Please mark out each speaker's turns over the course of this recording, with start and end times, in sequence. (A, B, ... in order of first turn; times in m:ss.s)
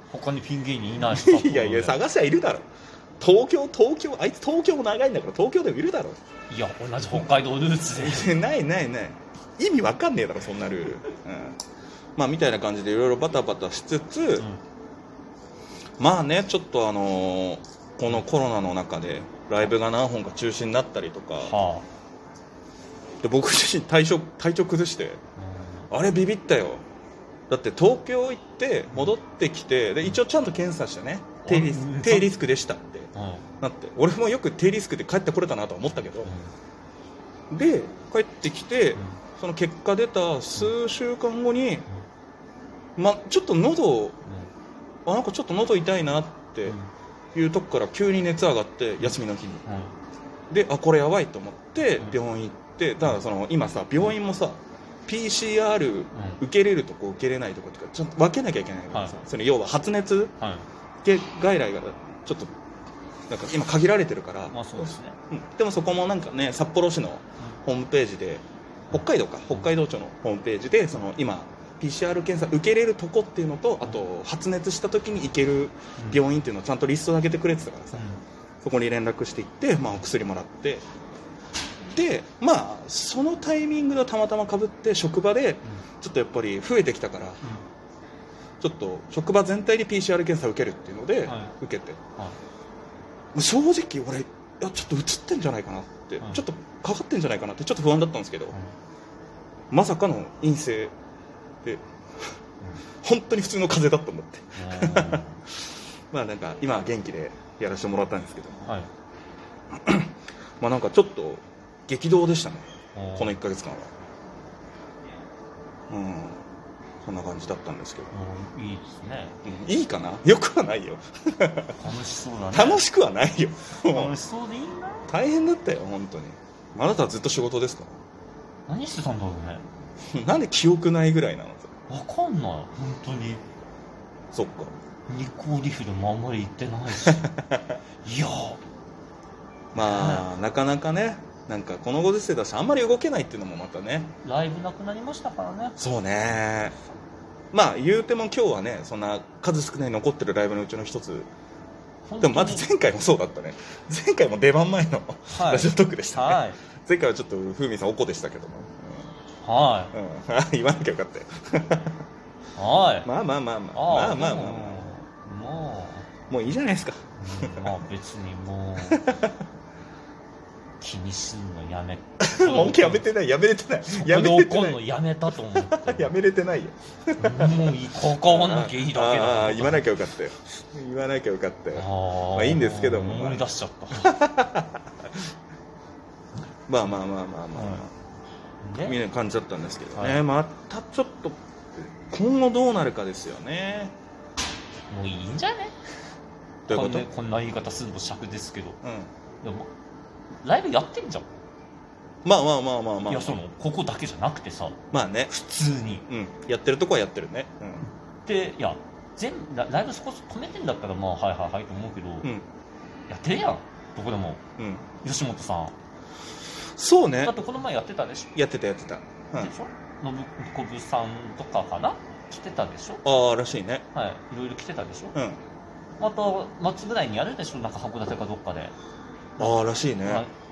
0:00.1-0:02.0 A
0:01.0-0:02.6 B
0:03.2-0:06.2 B
0:06.5-0:08.4 A
0:07.9-0:11.6 B
0:12.2-0:14.4 B
0:16.0-0:21.5 B
0:21.4-0:21.8 A
0:23.2-0:25.2 B
0:25.4-0:25.8 A
0:25.9-0:26.8 B
0:27.5-0:33.1 B
0:31.4-0:32.3 A
0:33.1-0:33.4 A
0:33.6-0:36.3 B
0:36.2-0:36.5 A
0:37.5-0:41.8 B
0:43.0-0:44.2 B
0:45.0-0:46.8 B
0:47.3-0:49.6 B
0:49.6-0:49.9 A
0:50.5-1:00.3 B
0:56.1-0:56.4 A
1:00.4-1:00.6 A
1:01.0-1:02.5 B
1:03.3-1:18.0 B
1:04.5-1:05.2 A
1:17.9-1:18.2 A
1:18.6-1:20.8 B
1:21.9-1:27.4 B
1:28.6-1:32.0 B
1:31.2-1:31.5 A
1:33.3-1:38.6 B
1:39.7-1:40.9 B
1:43.0-1:45.2 B
1:44.6-1:45.4 A
1:46.1-1:48.6 B
1:49.8-1:53.9 B
1:52.9-1:53.4 A
1:55.9-1:56.4 B
1:57.0-1:58.1 B
1:58.1-1:59.4 A
1:59.4-2:01.8 B
2:01.8-2:02.8 A
2:02.5-2:04.1 B
2:03.8-2:05.1 A
2:05.1-2:08.0 B
2:08.7-2:09.6 A
2:10.1-2:11.7 B
2:11.9-2:13.4 A
2:14.3-2:14.7 B
2:15.1-2:17.3 A
2:17.0-2:17.7 B
2:18.0-2:18.6 A
2:19.7-2:24.2 B
2:19.7-2:20.3 A
2:24.2-2:25.8 A
2:25.8-2:26.8 B
2:27.5-2:31.3 B
2:32.1-2:32.6 A
2:32.2-2:39.1 B
2:35.3-2:36.6 A
2:39.4-2:39.9 A
2:39.9-2:42.0 B
2:42.6-2:43.1 A
2:43.0-2:44.9 B
2:43.7-2:46.1 A
2:46.3-2:47.8 B
2:47.2-2:49.0 A
2:48.9-2:49.4 B
2:50.8-2:53.1 A
2:52.2-2:54.8 B
2:53.8-2:56.1 A
2:55.6-3:04.8 B
2:57.2-2:59.9 A
3:01.7-3:04.1 A
3:06.7-3:07.9 B
3:07.5-3:07.8 A
3:08.6-3:09.0 A
3:08.8-3:13.9 B
3:09.9-3:10.2 A
3:14.9-3:15.8 A
3:16.7-3:17.1 B
3:16.7-3:18.8 A
3:18.8-3:19.1 B
3:19.4-3:19.7 A
3:20.4-3:21.3 A
3:22.2-3:23.4 B
3:23.0-3:26.0 A
3:24.9-3:25.3 B
3:26.1-3:27.9 B
3:28.2-3:32.3 A
3:33.1-3:34.4 A
3:34.6-3:34.8 B
3:35.0-3:35.7 A
3:36.8-3:37.4 B
3:37.2-3:38.4 A
3:38.3-3:39.5 B
3:39.4-3:43.0 A
3:43.0-3:43.8 B
3:43.9-3:45.1 A
3:45.1-3:45.4 B
3:46.0-3:48.7 A
3:49.4-3:50.2 B
3:49.4-3:50.3 A